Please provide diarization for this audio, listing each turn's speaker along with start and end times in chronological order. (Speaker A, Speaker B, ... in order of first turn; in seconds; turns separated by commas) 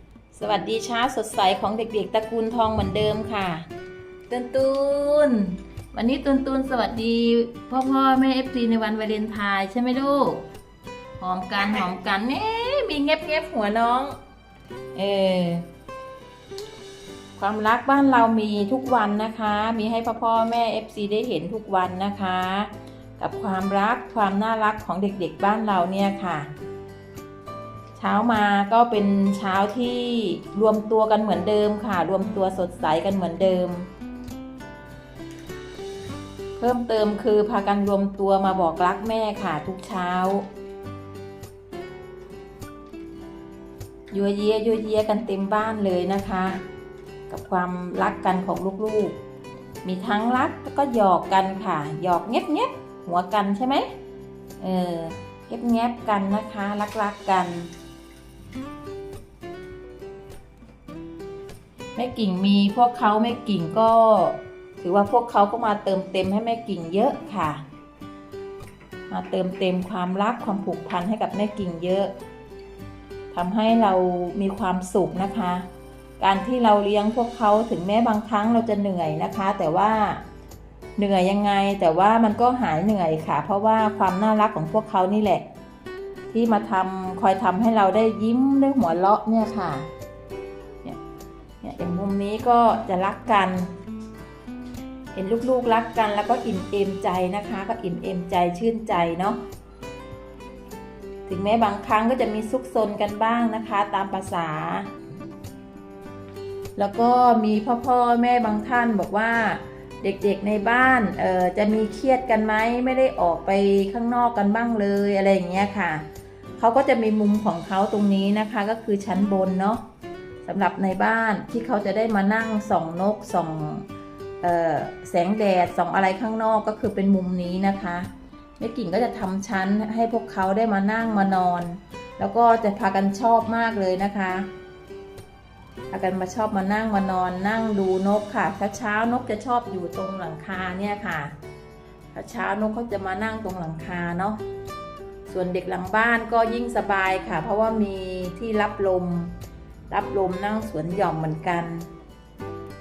Speaker A: 0.3-3.7, Speaker A: 4.3-10.5, Speaker A: 11.2-14.2, Speaker A: 14.9-15.7, Speaker A: 17.4-26.5, Speaker A: 27.9-33.9, Speaker A: 36.6-40.5, Speaker A: 44.1-46.6, Speaker A: 47.3-49.2, Speaker A: 49.8-53.9, Speaker A: 54.6-57.7, Speaker A: 62.0-67.6, Speaker A: 69.1-72.1, Speaker A: 73.3-75.7, Speaker A: 76.2-80.2, Speaker A: 81.0-85.5, Speaker A: 86.3-89.9, Speaker A: 91.6-93.7, Speaker A: 95.1-99.4, Speaker A: 101.2-104.9, Speaker A: 106.8-116.0, Speaker A: 116.6-119.8, Speaker A: 120.4-123.9, Speaker A: 124.4-134.5, Speaker A: 135.9-141.3, Speaker A: 142.1-144.4, Speaker A: 145.2-149.3, Speaker A: 149.9-151.9